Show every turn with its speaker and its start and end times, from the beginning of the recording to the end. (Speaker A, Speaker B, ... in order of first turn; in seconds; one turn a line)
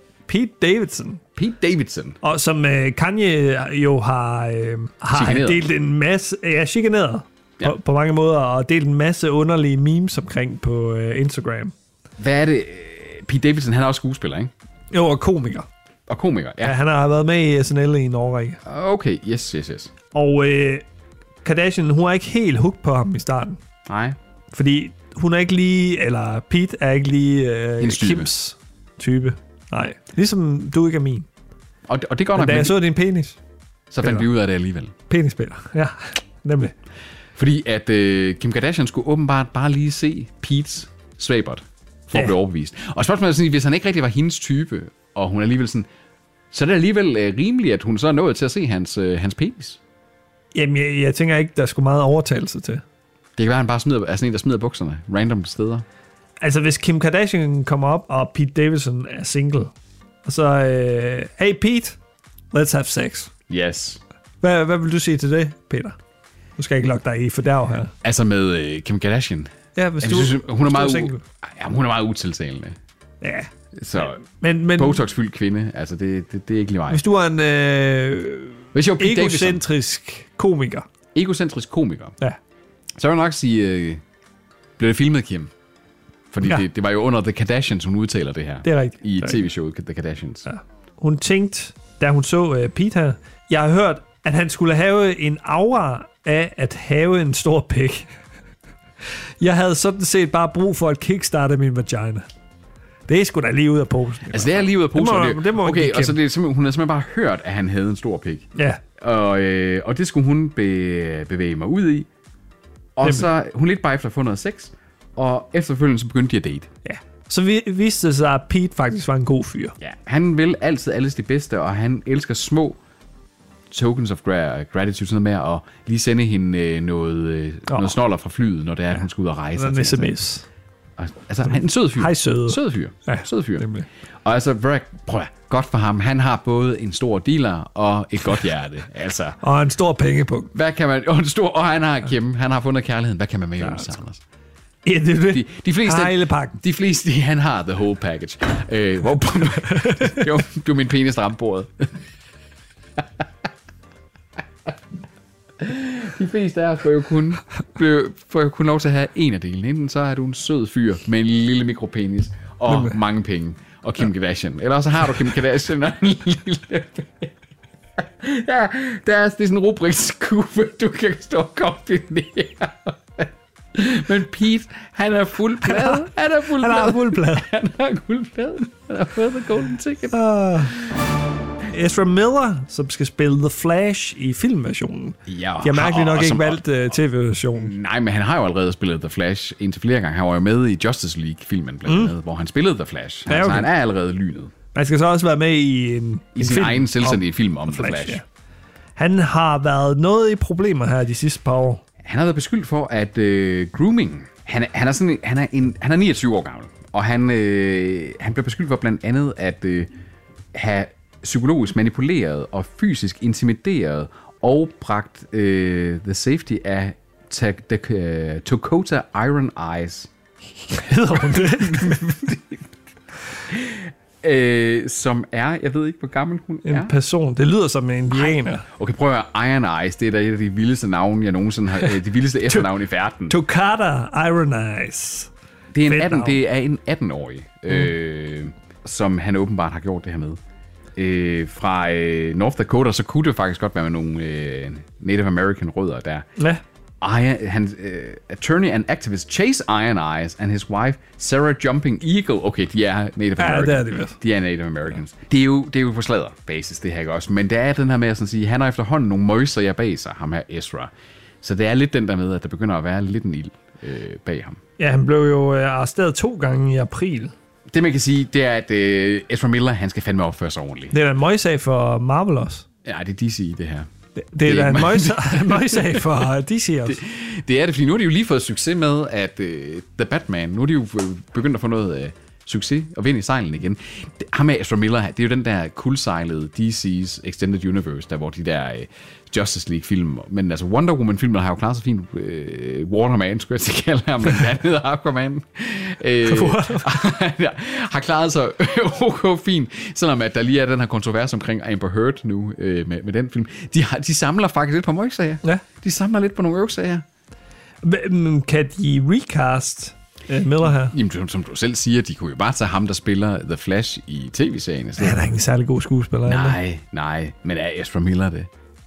Speaker A: 0.3-1.2
Speaker B: 1.4-2.2
Speaker A: 2.2-11.7
Speaker B: 5.1-5.6
Speaker B: 12.2-14.5
Speaker A: 14.9-15.7
Speaker B: 16.1-16.8
Speaker A: 16.6-18.6
Speaker B: 18.6-19.9
Speaker A: 20.1-20.8
Speaker A: 21.4-23.6
Speaker B: 23.9-24.2
Speaker A: 24.5-31.3
Speaker B: 27.8-28.3
Speaker B: 31.9-32.8
Speaker A: 32.4-33.4
Speaker B: 33.9-34.9
Speaker A: 35.1-36.7
Speaker B: 37.4-45.9
Speaker B: 46.5-49.8
Speaker A: 50.5-52.8
Speaker B: 53.4-55.9
Speaker A: 56.4-59.7
Speaker A: 60.2-62.0
Speaker A: 62.5-63.3
Speaker B: 63.5-64.0
Speaker A: 64.4-66.0
Speaker A: 66.6-67.9
Speaker B: 68.0-72.8
Speaker A: 69.8-71.2
Speaker A: 73.2-75.0
Speaker B: 73.8-74.2
Speaker B: 74.8-77.0
Speaker A: 76.9-80.9
Speaker B: 78.7-79.6
Speaker B: 81.1-82.2
Speaker B: 83.0-84.0
Speaker B: 84.8-85.5
Speaker B: 86.3-90.5
Speaker A: 88.6-89.5
Speaker A: 90.5-98.1
Speaker A: 99.4-102.2
Speaker A: 103.1-106.2
Speaker B: 104.3-112.1
Speaker A: 108.5-108.8
Speaker B: 113.0-116.7
Speaker A: 116.8-119.8
Speaker B: 119.8-122.8
Speaker B: 123.7-130.1
Speaker A: 129.6-130.5
Speaker B: 131.0-133.7
Speaker A: 132.0-133.9
Speaker B: 134.2-139.4
Speaker A: 139.4-140.5
Speaker B: 140.5-144.2
Speaker A: 143.6-143.9
Speaker A: 144.8-146.6
Speaker B: 145.3-152.0
Speaker A: 149.6-150.2
Speaker B: 155.6-167.3
Speaker A: 162.7-163.0
Speaker B: 168.0-180.2
Speaker A: 175.6-177.5
Speaker A: 180.1-180.8
Speaker A: 181.7-187.7
Speaker B: 185.3-186.6
Speaker B: 187.6-194.5
Speaker A: 191.9-192.1
Speaker A: 193.3-193.7
Speaker A: 194.7-198.2
Speaker B: 196.3-198.2
Speaker A: 199.0-201.8
Speaker B: 202.0-209.9
Speaker B: 210.5-220.1
Speaker A: 220.7-222.1
Speaker B: 221.1-222.7
Speaker B: 223.5-226.9
Speaker A: 226.7-228.7
Speaker B: 228.1-233.4
Speaker A: 233.3-235.3
Speaker B: 235.7-240.4
Speaker A: 235.9-236.4
Speaker B: 241.0-246.3
Speaker A: 246.4-246.6
Speaker B: 247.0-260.9
Speaker A: 253.4-254.2
Speaker B: 261.4-264.6
Speaker A: 264.8-267.3
Speaker B: 267.7-270.9
Speaker A: 270.9-272.6
Speaker B: 272.8-273.9
Speaker A: 274.2-277.0
Speaker B: 274.4-276.3
Speaker B: 276.9-307.1
Speaker A: 296.2-296.9
Speaker A: 307.8-310.9
Speaker B: 310.6-315.3
Speaker A: 315.0-316.6
Speaker B: 316.3-318.5